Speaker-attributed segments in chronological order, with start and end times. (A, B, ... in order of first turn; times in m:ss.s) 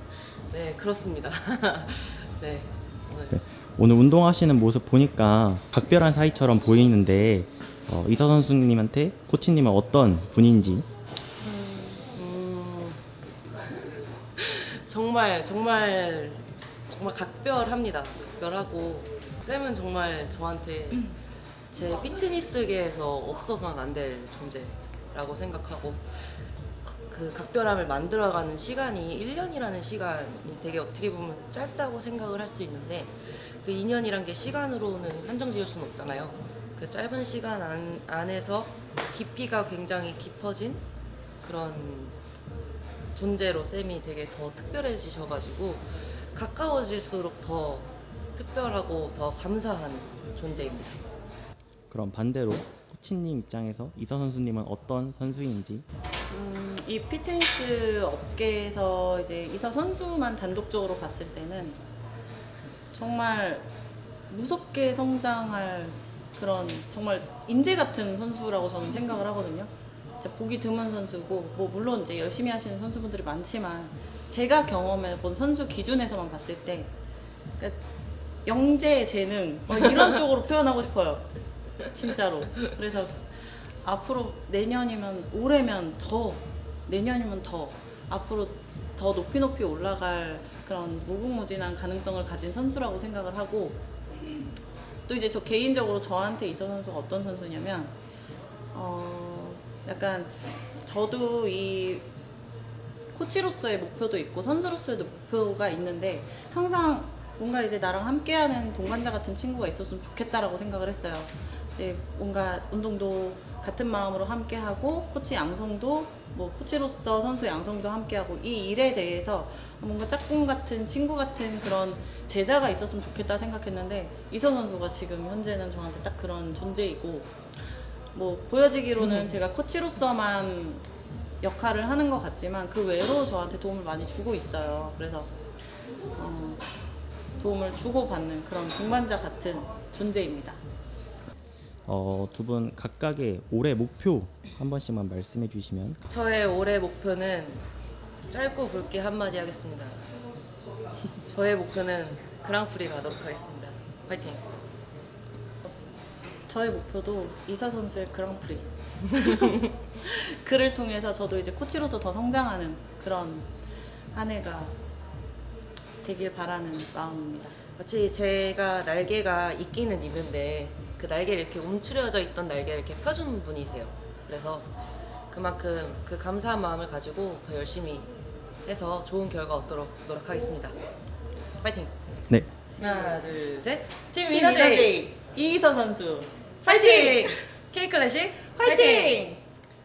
0:00.5-0:03.4 A
0:03.3-0:10.9 B
0:11.4-0:13.0 A
0:14.4-0:21.1 A
0:21.7-0:26.3 A
0:26.8-0:40.8 A
0:41.4-0:42.2 A
0:43.2-0:51.0 A
0:51.9-0:55.8 B
0:56.3-1:01.8 C
1:02.9-1:03.7 C
1:04.3-1:09.7 C
1:10.2-1:16.9 C
1:18.5-1:21.3 C
1:21.9-1:33.8 C
1:35.1-1:37.9 C
1:38.7-1:42.1 C
1:43.1-2:07.3 C
2:08.1-2:10.8 C
2:11.4-2:15.3 C
2:16.2-2:16.6 C
2:17.4-2:20.6 C
2:21.9-2:26.0 B
2:26.1-2:27.6 A
2:28.3-2:30.0 A
2:31.3-2:34.4 A
2:36.5-2:43.5 C
2:44.1-2:44.8 C
2:46.0-2:47.6 C
2:47.8-2:54.7 A
2:55.3-2:58.1 A
2:58.6-3:00.8 A
3:01.6-3:02.0 A
3:02.8-3:05.0 A
3:02.8-3:03.2 C
3:04.3-3:07.4 C
3:06.6-3:09.2 A
3:08.6-3:09.4 C